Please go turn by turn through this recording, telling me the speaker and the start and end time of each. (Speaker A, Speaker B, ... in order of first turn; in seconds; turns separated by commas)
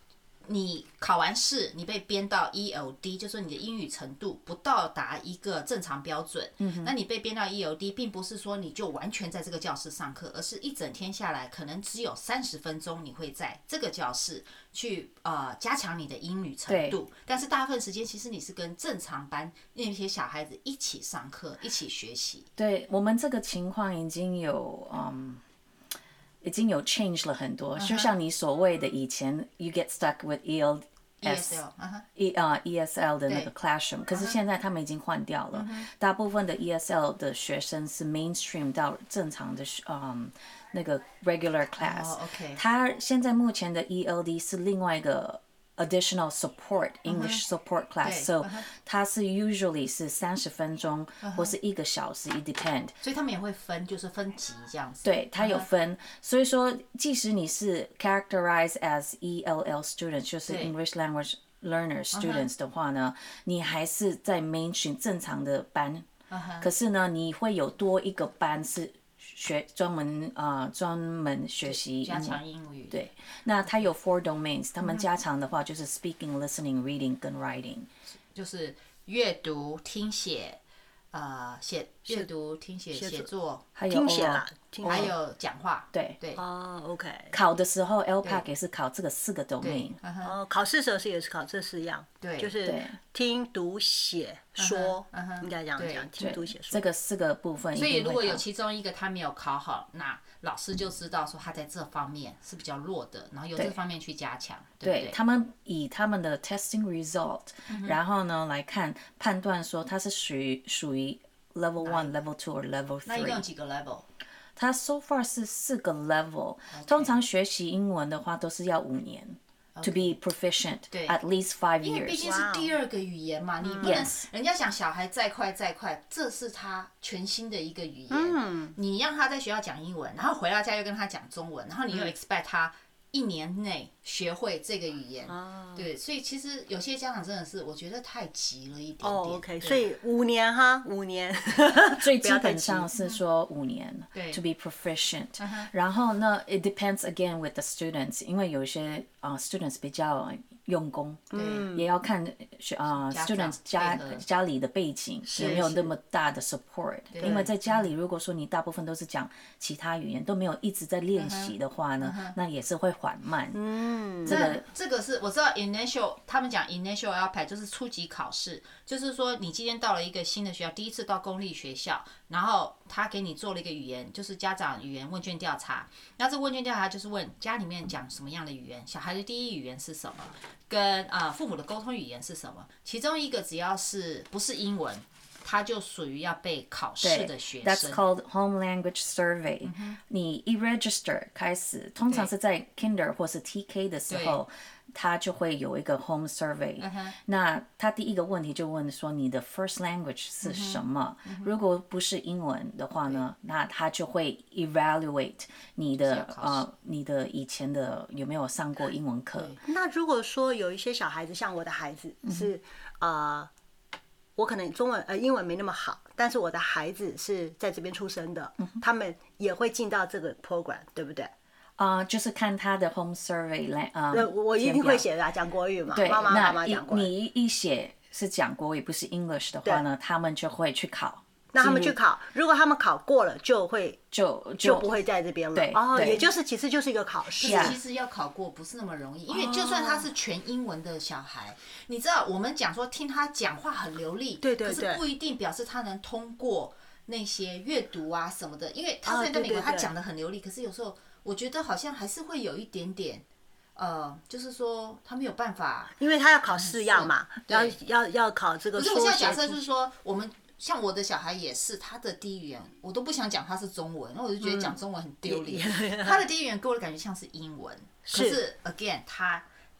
Speaker A: 0.4-22.5, Speaker B: 6.6-6.9, Speaker B: 16.7-17.0, Speaker B: 22.6-25.4, Speaker B: 26.4-31.6, Speaker A: 27.8-28.1, Speaker A: 31.2-32.0, Speaker B: 32.1-53.0, Speaker A: 35.5-35.9, Speaker A: 41.8-42.6, Speaker A: 47.0-47.4, Speaker A: 48.0-48.7, Speaker A: 51.2-51.5, Speaker A: 53.0-55.7, Speaker B: 55.0-66.1, Speaker A: 60.5-60.7, Speaker A: 62.1-62.5, Speaker A: 66.3-66.7, Speaker B: 66.6-72.4, Speaker A: 71.6-73.0, Speaker B: 72.9-77.9, Speaker A: 78.3-80.6, Speaker A: 81.1-83.7, Speaker C: 82.9-83.3, Speaker B: 83.8-85.1, Speaker C: 83.9-85.1, Speaker A: 84.8-86.4, Speaker B: 85.9-86.2, Speaker C: 86.3-87.4, Speaker B: 87.3-90.0, Speaker A: 89.6-90.3, Speaker C: 90.2-96.8, Speaker A: 92.2-92.5, Speaker B: 92.6-93.0, Speaker A: 94.6-96.1, Speaker B: 96.2-98.4, Speaker A: 97.7-105.2, Speaker B: 104.8-113.4, Speaker A: 107.7-108.0, Speaker A: 111.8-112.2, Speaker A: 113.0-114.0, Speaker B: 114.5-122.3, Speaker A: 116.7-117.2, Speaker A: 119.8-120.2, Speaker A: 120.9-121.2, Speaker A: 121.8-139.9, Speaker C: 122.2-122.7, Speaker C: 123.6-124.0, Speaker B: 123.8-124.1, Speaker C: 128.1-128.8, Speaker C: 135.3-135.9, Speaker C: 139.0-142.9, Speaker B: 142.0-163.6, Speaker A: 144.1-144.4, Speaker A: 145.4-145.7, Speaker C: 151.3-151.9, Speaker A: 151.3-151.7, Speaker A: 153.1-154.2, Speaker C: 155.3-155.8, Speaker A: 155.3-155.9, Speaker A: 157.1-157.9, Speaker A: 161.2-162.3, Speaker C: 163.5-164.4, Speaker B: 164.2-164.6, Speaker A: 164.2-188.0, Speaker B: 187.0-209.6, Speaker A: 189.6-190.0, Speaker A: 194.1-194.4, Speaker A: 196.8-197.1, Speaker A: 200.4-201.5, Speaker A: 206.0-206.6, Speaker A: 209.3-209.6, Speaker C: 209.6-213.5, Speaker C: 214.4-221.3, Speaker B: 221.8-225.1, Speaker C: 224.1-227.1, Speaker B: 225.9-231.9, Speaker C: 231.5-234.0, Speaker B: 234.1-234.9, Speaker C: 234.6-237.8, Speaker B: 235.5-236.2, Speaker A: 237.4-253.2, Speaker B: 237.4-237.8, Speaker C: 239.3-240.1, Speaker C: 244.4-245.0, Speaker C: 249.0-249.9, Speaker A: 253.8-256.0, Speaker C: 256.0-259.6, Speaker A: 256.5-257.8, Speaker A: 258.8-269.4, Speaker C: 264.4-266.2, Speaker C: 268.1-268.4